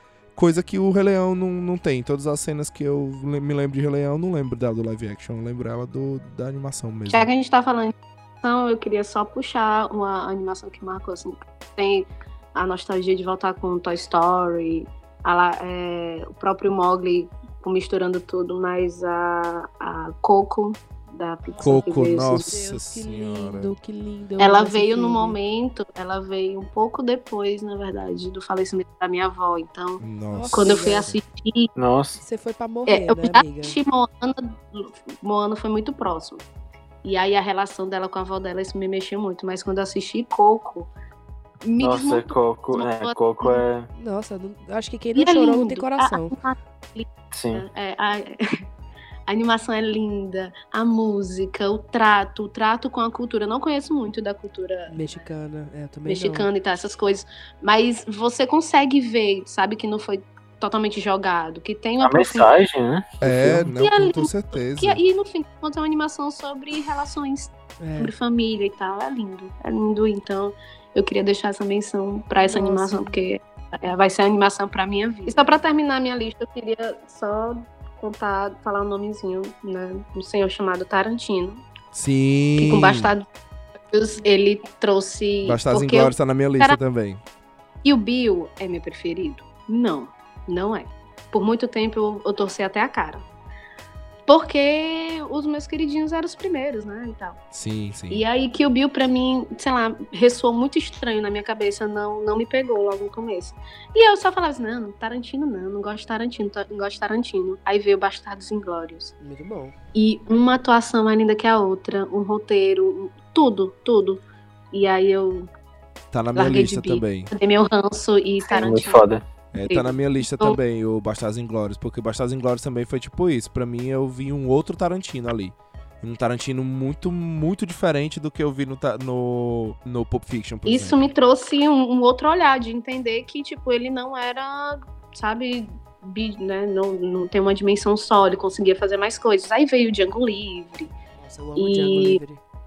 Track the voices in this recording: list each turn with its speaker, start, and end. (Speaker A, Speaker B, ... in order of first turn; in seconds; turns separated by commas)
Speaker A: 0.3-7.3, Speaker B: 7.1-22.5, Speaker C: 21.6-25.4, Speaker A: 21.6-23.7, Speaker B: 24.4-31.7, Speaker A: 30.0-30.9, Speaker C: 30.3-31.2, Speaker D: 31.8-32.2, Speaker C: 32.2-33.8, Speaker B: 32.9-36.4, Speaker B: 37.0-40.9, Speaker B: 41.6-43.6, Speaker D: 41.8-43.9, Speaker C: 44.0-46.4, Speaker B: 45.2-48.4, Speaker D: 47.3-47.6, Speaker B: 49.3-55.2, Speaker C: 54.9-56.5, Speaker B: 56.1-62.5, Speaker D: 62.0-63.7, Speaker A: 63.2-65.0, Speaker B: 63.8-81.6, Speaker C: 67.8-68.1, Speaker C: 72.4-73.2, Speaker A: 81.9-83.1, Speaker B: 82.6-83.3, Speaker B: 83.9-86.8, Speaker A: 85.4-87.2, Speaker B: 87.8-93.2, Speaker B: 94.3-97.4, Speaker A: 97.5-98.2, Speaker B: 98.1-109.1, Speaker C: 109.2-109.7, Speaker B: 109.9-115.5, Speaker A: 116.1-117.3, Speaker B: 116.3-119.0, Speaker D: 118.5-119.2, Speaker A: 119.5-131.1, Speaker B: 119.6-120.6, Speaker B: 130.7-140.9, Speaker C: 141.2-142.4, Speaker B: 141.6-142.2